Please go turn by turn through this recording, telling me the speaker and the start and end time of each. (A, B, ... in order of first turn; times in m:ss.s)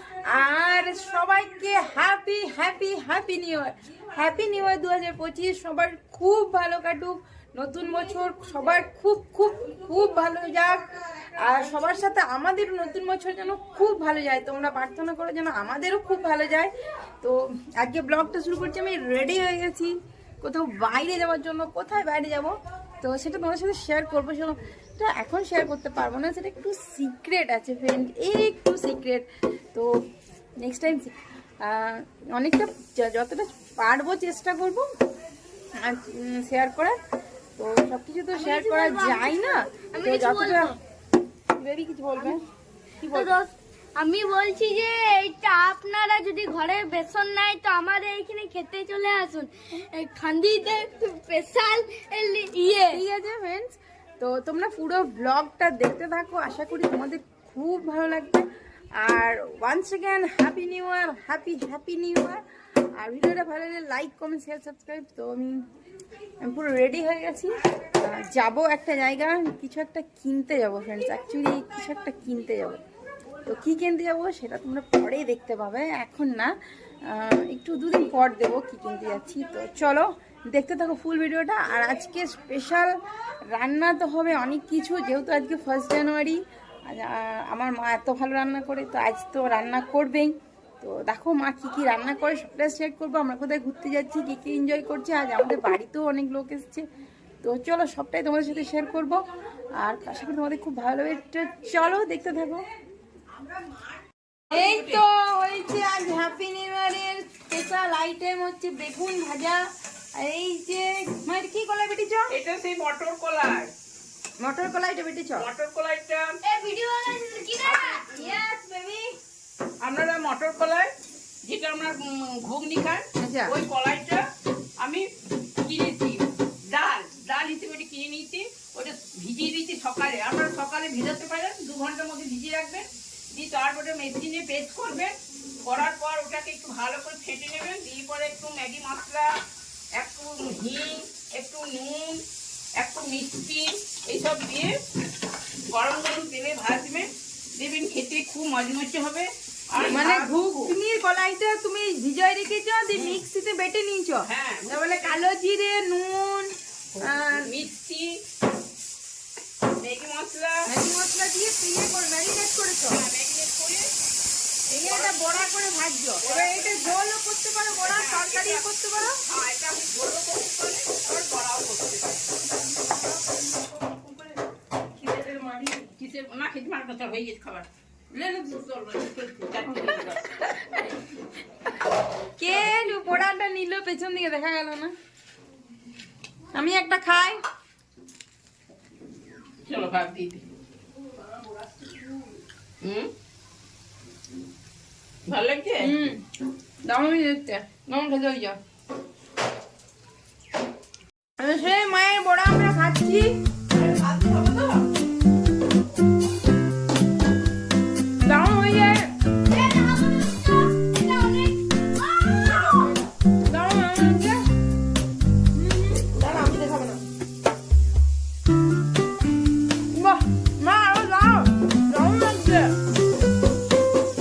0:00.2-0:10.8 A
0:11.4-0:30.0 A
0:30.6-0:34.8 A
0:35.8-0:36.9 A
0:37.6-0:40.7 A
0:38.3-0:40.7 B
0:41.6-0:42.4 A
0:43.0-0:43.3 A
0:43.1-0:53.0 B
0:52.9-0:58.5 A
0:59.0-1:02.4 A
1:03.0-1:05.6 A
1:06.4-1:12.8 A
1:13.4-1:16.5 A
1:17.1-1:22.9 A
1:23.5-1:36.8 A
1:37.4-1:39.2 A
1:39.8-1:42.6 A
1:44.5-1:49.6 A
1:44.5-1:45.0 C
1:50.2-1:52.3 A
1:52.3-1:53.7 C
1:54.4-1:55.5 A
1:55.4-1:56.3 C
1:56.4-1:58.4 B
1:57.6-1:59.0 A
1:59.8-2:00.9 C
2:01.4-2:04.2 C
2:03.2-2:03.6 A
2:04.8-2:05.1 C
2:05.6-2:19.3 C
2:20.0-2:22.2 C
2:22.8-2:24.7 C
2:25.7-2:30.7 C
2:29.8-2:37.5 A
2:32.9-2:33.2 C
2:34.2-2:35.2 C
2:37.0-2:38.2 C
2:39.8-2:40.6 C
2:40.6-2:43.0 A
2:42.9-2:43.9 C
2:44.7-2:45.4 C
2:44.7-2:49.2 A
2:46.2-2:47.0 C
2:47.8-2:48.6 C
2:49.2-2:52.3 C
2:52.7-2:54.2 A
2:55.0-2:55.8 A
2:55.7-2:57.7 C
2:58.2-2:58.7 A
2:58.4-3:00.4 C
2:59.8-3:00.8 A
3:02.4-3:04.9 A
3:06.5-3:07.4 A
3:09.6-3:10.4 C
3:12.8-3:13.1 C
3:15.3-3:15.9 C
3:15.8-3:16.2 A
3:16.8-3:18.6 A
3:21.4-3:23.3 A
3:23.7-3:24.8 C
3:28.2-3:29.1 A
3:29.4-3:32.9 B
3:33.4-3:34.4 A
3:35.5-3:37.0 A
3:39.9-3:42.7 A